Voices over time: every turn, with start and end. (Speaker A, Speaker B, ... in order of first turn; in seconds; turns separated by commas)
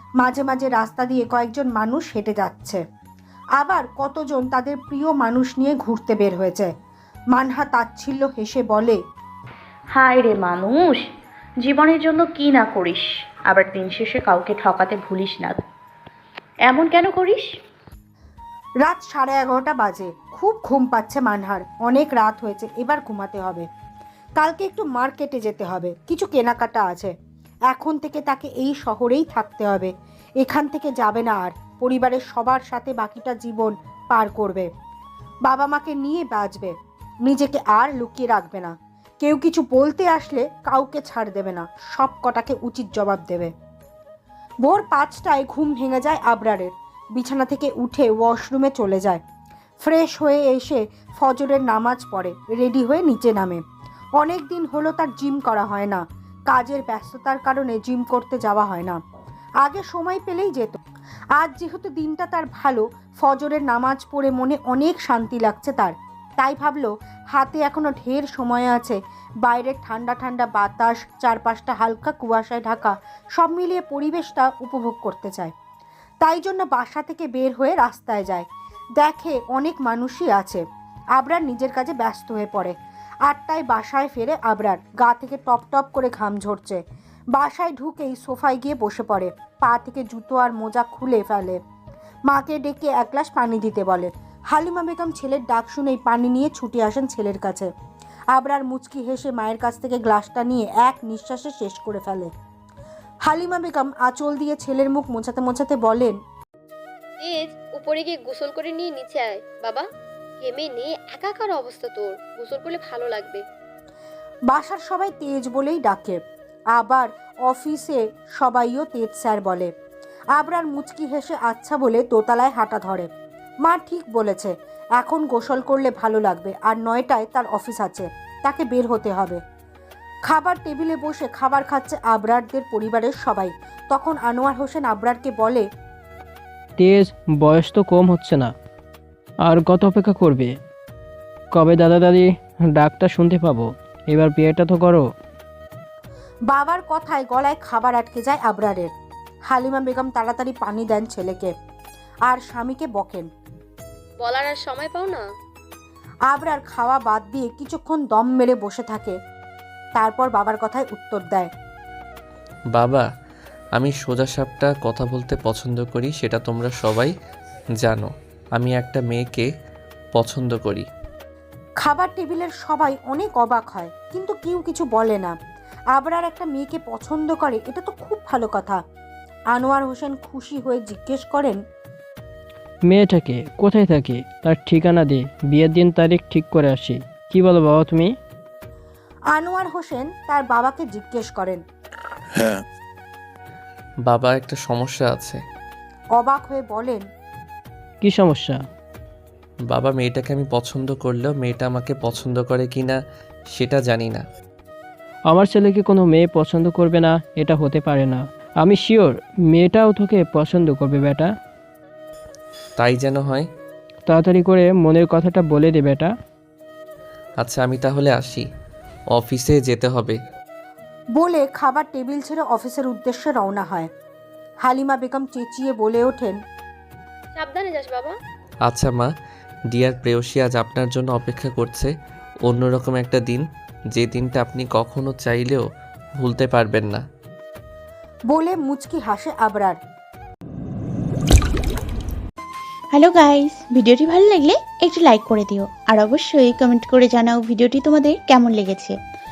Speaker A: 0.2-2.8, Speaker A: 3.6-6.7, Speaker A: 7.3-9.0, Speaker B: 9.9-11.0, Speaker B: 11.6-15.6, Speaker B: 16.7-17.5, Speaker A: 18.8-23.7, Speaker A: 24.4-27.1, Speaker A: 27.7-34.7, Speaker A: 35.5-36.8, Speaker A: 37.3-43.5, Speaker A: 44.6-49.2, Speaker A: 49.8-53.6, Speaker A: 54.2-59.0, Speaker A: 59.6-60.8, Speaker A: 61.4-75.5, Speaker A: 76.2-78.5, Speaker A: 79.0-80.6, Speaker A: 81.2-86.8, Speaker A: 87.3-91.6, Speaker A: 92.3-97.7, Speaker A: 98.3-102.3, Speaker A: 103.3-106.2, Speaker C: 107.2-109.9, Speaker C: 110.4-113.4, Speaker A: 114.5-116.2, Speaker A: 116.8-119.7, Speaker A: 120.3-123.1, Speaker A: 123.6-129.4, Speaker A: 130.3-135.7, Speaker D: 136.8-138.5, Speaker D: 139.4-140.5, Speaker D: 141.5-145.1, Speaker A: 146.5-148.9, Speaker A: 149.5-151.5, Speaker A: 152.3-153.3, Speaker C: 154.2-155.2, Speaker A: 156.3-159.2, Speaker A: 160.0-161.5, Speaker E: 162.7-163.1, Speaker E: 163.8-167.1, Speaker E: 167.8-169.5, Speaker E: 170.2-170.9, Speaker A: 171.8-175.4, Speaker A: 175.9-178.8, Speaker A: 179.5-181.6, Speaker D: 182.9-188.1, Speaker A: 189.3-191.6, Speaker E: 194.1-195.4, Speaker A: 196.2-197.0, Speaker D: 198.0-198.6, Speaker E: 199.7-203.0, Speaker E: 203.6-204.2, Speaker D: 205.3-211.3, Speaker E: 212.8-213.5, Speaker D: 214.1-216.1, Speaker E: 217.4-218.5, Speaker E: 219.1-220.2, Speaker A: 221.2-223.9, Speaker A: 224.6-226.4, Speaker C: 227.4-228.1, Speaker E: 228.7-229.1, Speaker E: 229.7-231.9, Speaker E: 232.5-235.7, Speaker E: 236.2-237.0, Speaker A: 238.3-239.8, Speaker F: 242.9-249.0